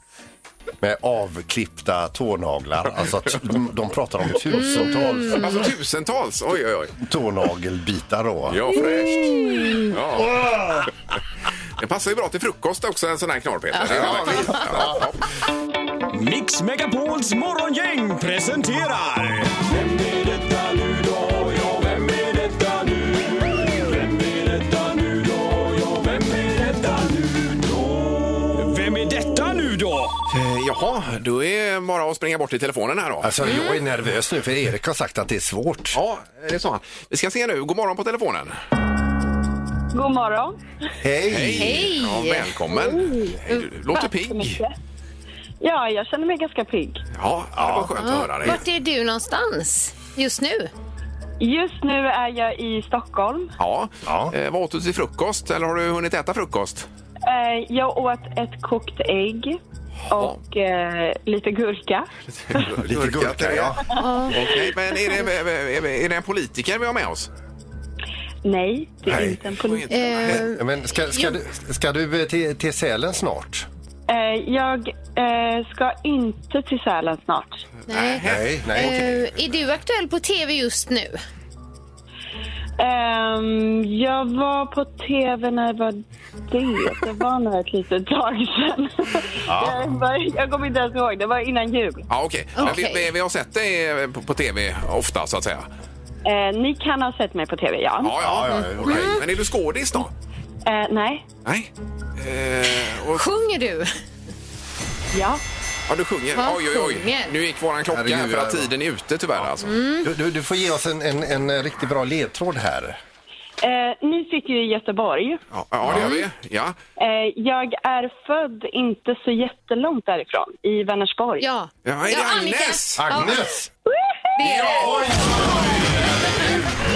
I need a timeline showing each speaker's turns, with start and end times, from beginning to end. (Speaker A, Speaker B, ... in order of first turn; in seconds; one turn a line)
Speaker A: 0.8-5.5
Speaker B: 4.7-5.4
Speaker C: 5.3-7.0
Speaker A: 7.0-8.8
Speaker C: 8.5-9.3
Speaker B: 8.8-9.9
Speaker C: 9.9-10.4
Speaker C: 11.8-15.2
Speaker B: 13.8-14.6
Speaker A: 13.8-15.1
Speaker D: 16.1-22.9
Speaker D: 24.2-27.1
Speaker D: 28.5-30.1
Speaker C: 30.3-33.3
Speaker A: 33.2-36.0
Speaker B: 33.5-33.7
Speaker C: 35.9-38.5
Speaker E: 39.9-40.6
Speaker A: 41.0-41.9
Speaker C: 41.3-44.6
Speaker B: 41.6-42.6
Speaker E: 42.7-43.4
Speaker E: 44.0-44.7
Speaker E: 45.6-47.0
Speaker C: 47.1-48.6
Speaker A: 47.5-48.6
Speaker B: 48.0-50.7
Speaker E: 51.4-53.5
Speaker C: 53.6-56.9
Speaker A: 54.0-54.3
Speaker E: 57.2-59.6
Speaker E: 60.1-62.1
Speaker C: 60.1-60.4
Speaker C: 62.4-67.3
Speaker A: 62.7-63.9
Speaker B: 63.9-64.6
Speaker E: 68.4-70.0
Speaker A: 69.1-69.4
Speaker C: 69.6-70.5
Speaker B: 69.9-70.6
Speaker A: 70.3-73.7
Speaker E: 74.1-77.6
Speaker C: 77.9-79.4
Speaker B: 77.9-81.2
Speaker A: 78.2-79.0
Speaker E: 82.8-92.0
Speaker A: 89.5-89.8
Speaker C: 92.1-95.7
Speaker B: 92.5-93.1
Speaker E: 96.2-98.1
Speaker C: 98.0-100.1
Speaker A: 98.2-99.2
Speaker B: 98.5-99.2
Speaker E: 100.6-101.3
Speaker C: 101.4-103.2
Speaker B: 103.1-103.9
Speaker E: 105.1-105.4
Speaker C: 105.9-109.8
Speaker B: 106.3-107.3
Speaker A: 107.9-108.7
Speaker B: 109.6-110.1
Speaker A: 110.0-113.0
Speaker E: 113.6-115.4
Speaker C: 115.5-116.8
Speaker B: 115.8-116.2
Speaker A: 115.9-116.1
Speaker E: 117.0-121.5
Speaker B: 121.4-123.4
Speaker C: 121.8-123.1
Speaker A: 123.0-123.7
Speaker E: 123.8-124.5
Speaker B: 124.4-125.1
Speaker C: 124.4-125.1
Speaker A: 124.6-125.7